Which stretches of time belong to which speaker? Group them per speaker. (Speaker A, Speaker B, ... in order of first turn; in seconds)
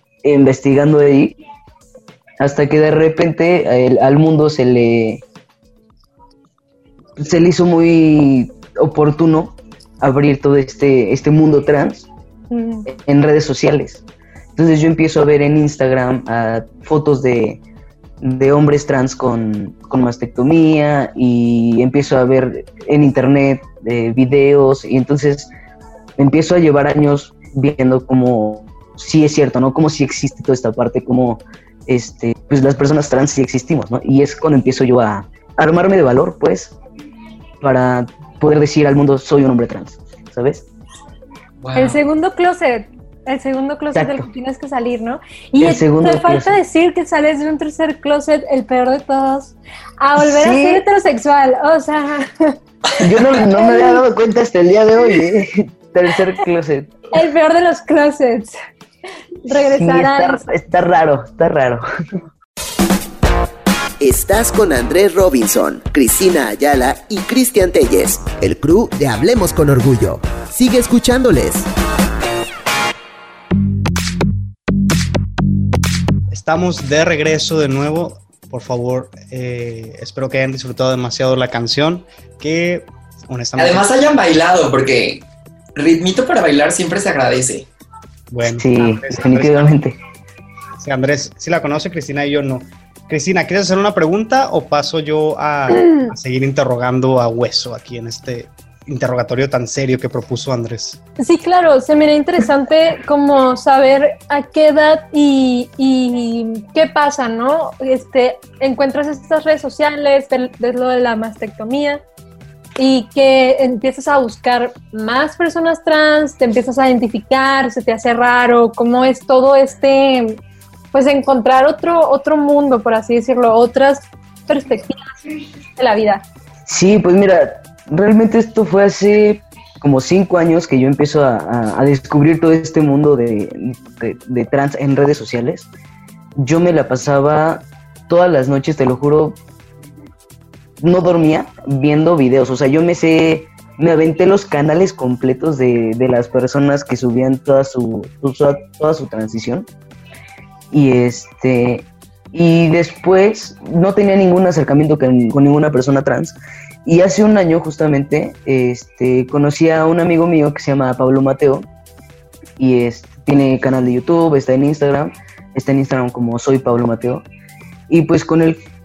Speaker A: 0.2-1.3, 2.4-5.2, 7.2-12.1, 12.9-14.0, 14.6-17.6, 18.2-25.5, 26.2-36.7, 37.6-40.6, 43.9-44.3, 45.6-46.6, 50.2-50.8, 53.0-57.0, 59.5-62.2, 88.4-90.0, 126.7-135.7, 136.4-139.4, 140.8-149.7, 150.7-161.7, 162.6-167.2, 167.9-168.6
Speaker B: 12.5-12.9, 41.7-52.6, 53.5-54.0, 57.1-58.5, 59.4-60.5, 101.2-112.0, 112.8-120.4, 120.9-125.1, 125.8-126.2
Speaker C: 41.6-42.0, 83.6-85.2, 85.8-87.7
Speaker D: 64.0-71.7
Speaker E: 76.3-83.8, 88.3-89.7, 90.8-101.0